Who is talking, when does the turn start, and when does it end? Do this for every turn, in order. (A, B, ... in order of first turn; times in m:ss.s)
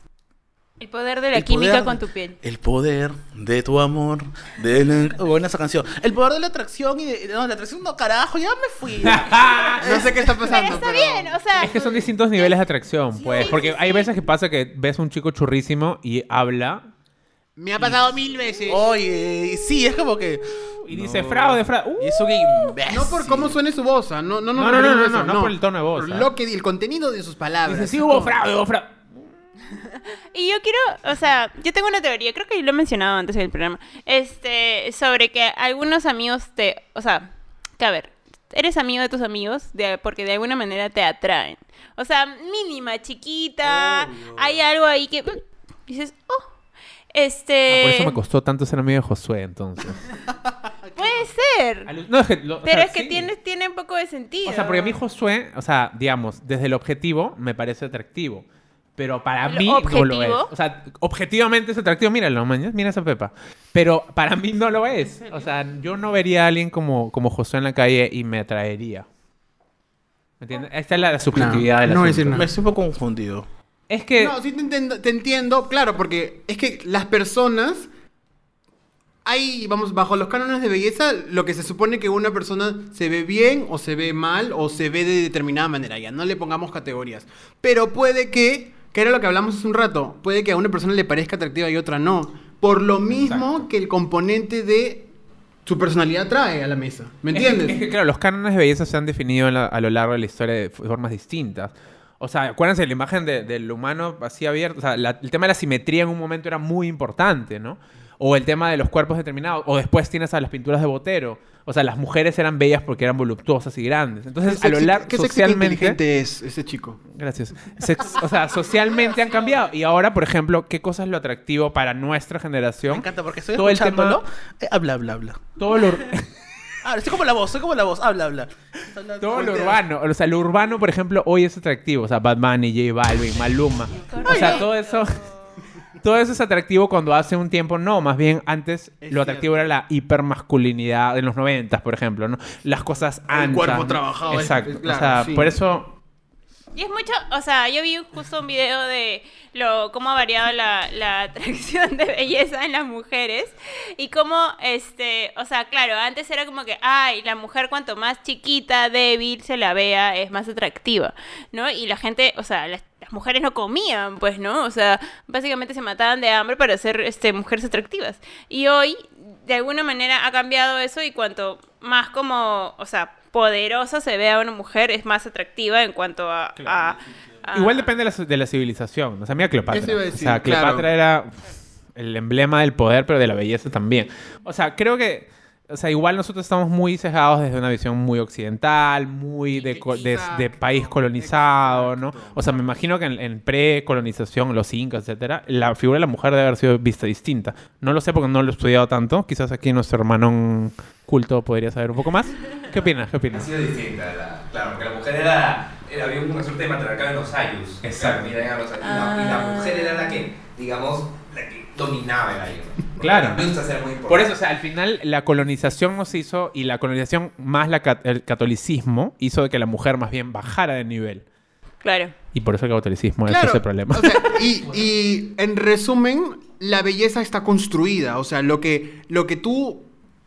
0:00.8-0:02.4 A
0:01.3-0:10.4 B
0:09.0-0:09.9 C
0:09.8-0:11.4 D
0:10.4-0:12.6 A
0:11.6-0:16.9 C
0:13.2-0:14.1 A
0:13.3-0:13.6 B
0:17.6-0:18.9 D
0:18.7-0:23.6 B
0:20.8-0:22.7 C
0:22.9-0:28.4 D
0:24.6-0:26.3 C
0:27.7-0:29.2 C
0:30.0-0:46.5 A
0:43.6-0:44.6 B
0:47.1-0:48.2 A
0:47.7-0:50.1 C
0:50.8-0:51.3 B
0:51.0-0:51.9 A
0:51.9-0:53.3 C
0:52.6-0:55.0 A
0:54.5-0:58.4 C
0:59.0-1:09.1 C
0:59.5-1:00.5 A
1:04.9-1:05.5 B
1:10.4-1:12.4 C
1:11.3-1:12.5 D
1:12.3-1:13.5 B
1:13.9-1:14.4 C
1:14.2-1:17.9 D
1:19.2-1:35.1 D
1:33.1-1:33.7 C
1:35.7-1:37.8 D
1:37.3-1:56.0 C
1:54.4-1:57.0 D
1:57.2-2:04.2 C
1:58.3-1:59.6 B
2:02.8-2:05.6 B
2:05.6-2:06.3 C
2:06.8-2:09.8 B
2:09.2-2:15.2 C
2:14.0-2:15.6 A
2:14.2-2:14.6 B
2:16.0-2:25.9 C
2:19.0-2:19.7 D
2:23.3-2:25.6 D
2:26.8-2:57.9 A
2:56.6-2:57.0 B
2:57.5-3:01.4 C
2:59.7-3:00.9 D
3:02.0-3:23.5 C
3:09.6-3:12.5 D
3:23.3-3:34.4 E
3:27.8-3:28.3 C
3:28.8-3:30.2 A
3:33.0-3:33.5 C
3:34.1-3:41.2 C
3:41.8-3:42.1 A
3:42.3-3:44.4 C
3:43.2-3:49.9 D